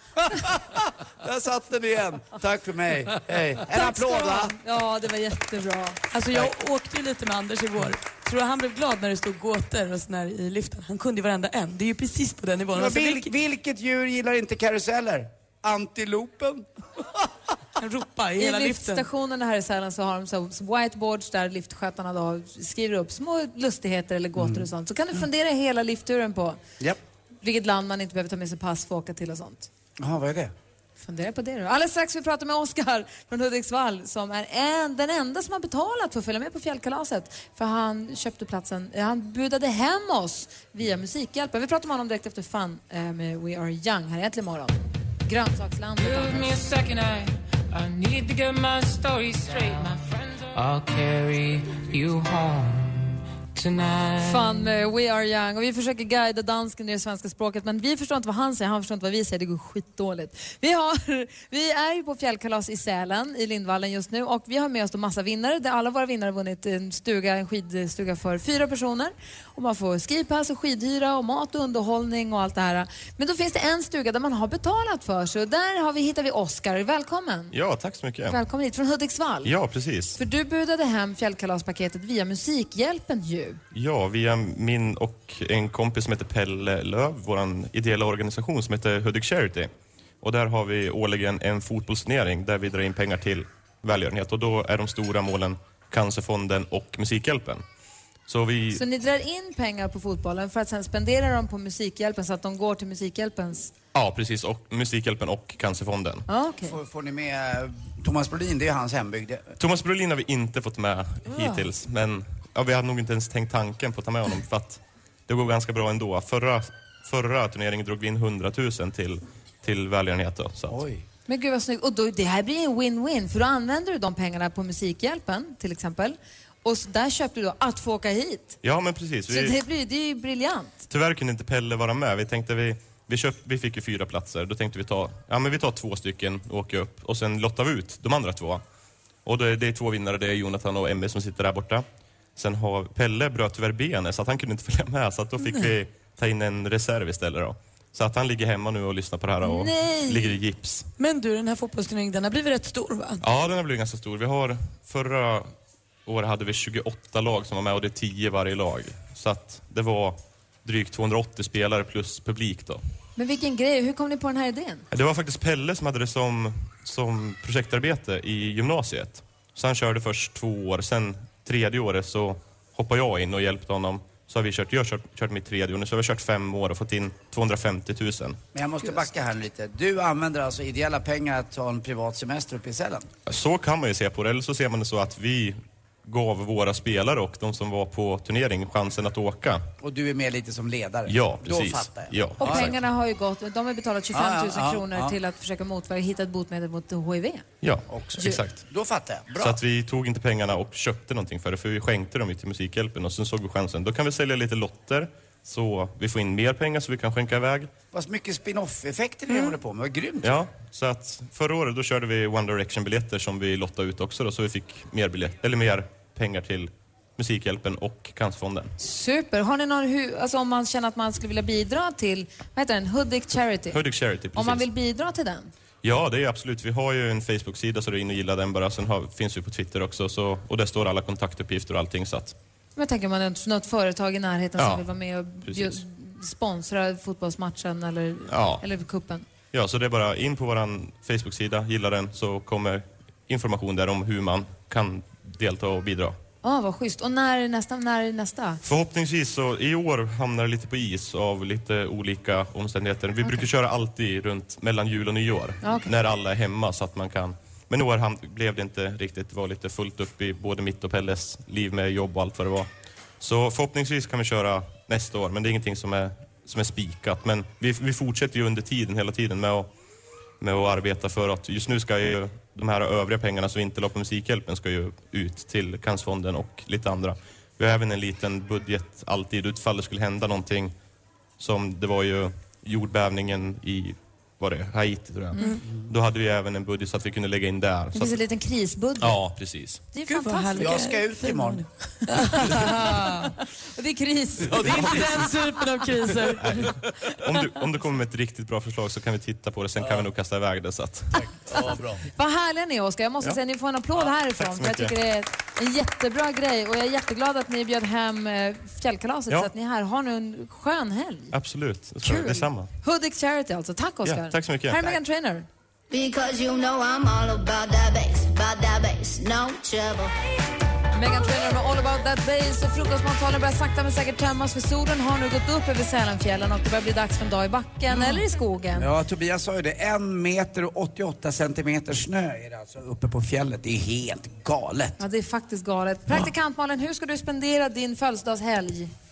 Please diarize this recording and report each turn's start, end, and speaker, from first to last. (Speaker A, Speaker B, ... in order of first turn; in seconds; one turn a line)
Speaker A: 0.2-4.5
Speaker B: 3.7-6.0
Speaker C: 6.1-13.3
Speaker A: 12.7-17.3
Speaker C: 17.8-19.1
Speaker B: 18.4-26.6
Speaker A: 24.4-24.7
Speaker B: 27.4-29.7
Speaker A: 30.0-30.5
Speaker B: 31.0-46.5
Speaker D: 46.0-54.7
Speaker B: 54.2-77.5
Speaker E: 77.5-78.4
Speaker B: 78.2-79.5
Speaker E: 79.4-80.2
Speaker B: 80.2-83.6
Speaker E: 83.7-89.7
Speaker E: 90.2-97.6
Speaker E: 98.3-98.8
Speaker B: 98.7-103.7
Speaker E: 103.9-106.3
Speaker B: 106.3-106.8
Speaker A: 106.6-109.5
Speaker E: 109.6-120.8
Speaker B: 111.3-111.6
Speaker A: 120.7-121.0
Speaker B: 121.3-128.6
Speaker E: 128.6-129.6
Speaker B: 129.3-130.8
Speaker E: 130.9-138.6
Speaker E: 139.2-141.8
Speaker E: 142.4-150.9
Speaker B: 149.4-150.4
Speaker C: 151.0-153.2
Speaker E: 153.2-155.5
Speaker E: 156.1-162.8
Speaker B: 163.2-164.8
Speaker E: 164.9-178.4
Speaker A: 178.5-183.1
Speaker E: 183.3-189.7
Speaker A: 189.8-192.7
Speaker E: 191.1-192.8
Speaker B: 192.4-197.4
Speaker A: 194.1-195.2
Speaker E: 197.6-198.6
Speaker A: 197.9-199.6
Speaker E: 199.4-207.7
Speaker A: 207.9-210.4
Speaker E: 210.2-218.7
Speaker B: 218.8-223.8
Speaker E: 223.7-224.7
Speaker B: 224.3-225.5
Speaker E: 225.8-232.4
Speaker B: 232.8-239.2
Speaker E: 234.6-234.9
Speaker E: 235.5-235.8
Speaker E: 238.3-238.7
Speaker E: 239.5-246.2
Speaker B: 246.4-248.6
Speaker E: 248.6-262.7
Speaker B: 255.6-255.9
Speaker E: 263.2-269.7
Speaker E: 270.4-280.8
Speaker E: 281.4-288.2
Speaker B: 285.3-285.6
Speaker B: 287.9-289.2
Speaker E: 289.0-289.8
Speaker B: 289.9-290.9
Speaker C: 290.1-293.3
Speaker A: 290.6-291.6
Speaker B: 292.1-295.3
Speaker A: 294.5-295.3
Speaker C: 294.5-296.6
Speaker E: 296.4-301.2
Speaker A: 299.8-300.1
Speaker A: 301.2-302.0
Speaker B: 301.5-311.3
Speaker E: 304.0-304.9
Speaker E: 311.3-312.7
Speaker B: 312.0-315.5
Speaker E: 314.0-314.9
Speaker F: 315.9-320.1
Speaker B: 320.9-328.9
Speaker A: 328.8-335.0
Speaker B: 335.0-338.9